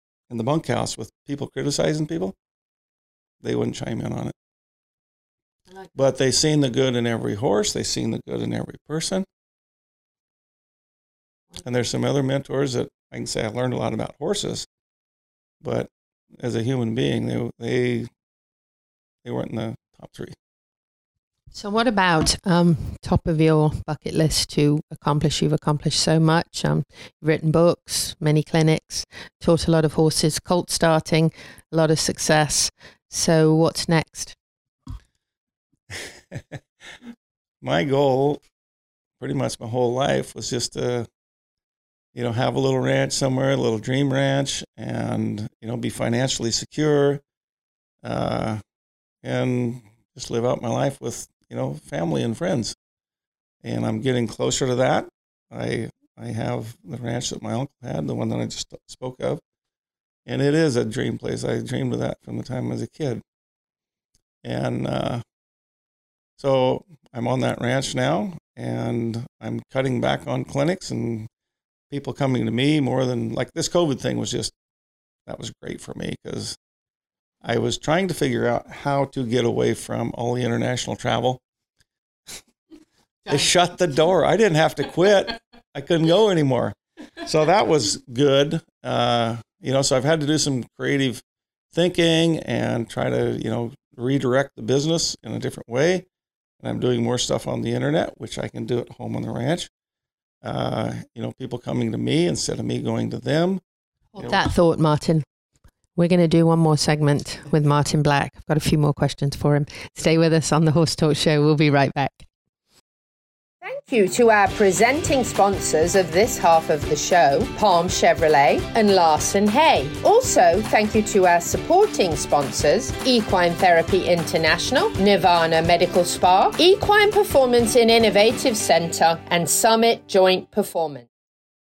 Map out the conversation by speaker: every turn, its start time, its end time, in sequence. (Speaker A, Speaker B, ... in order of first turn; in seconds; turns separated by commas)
Speaker A: 0.3-2.4, Speaker A: 3.4-4.3, Speaker A: 6.0-9.3, Speaker A: 11.6-14.7, Speaker A: 15.6-18.1, Speaker A: 19.2-20.4, Speaker B: 21.5-34.4, Speaker A: 37.6-38.4, Speaker A: 39.2-41.1, Speaker A: 42.1-47.2, Speaker A: 48.0-48.6, Speaker A: 49.2-52.8, Speaker A: 53.6-59.4, Speaker A: 60.3-63.2, Speaker A: 64.4-65.2, Speaker A: 66.4-71.3, Speaker A: 71.9-74.5, Speaker A: 75.3-76.6, Speaker A: 77.4-81.4, Speaker A: 83.3-91.2, Speaker A: 91.7-96.1, Speaker A: 96.6-99.7, Speaker A: 100.4-103.6, Speaker B: 104.2-105.2, Speaker A: 104.2-104.5, Speaker B: 106.0-112.3, Speaker C: 113.6-131.1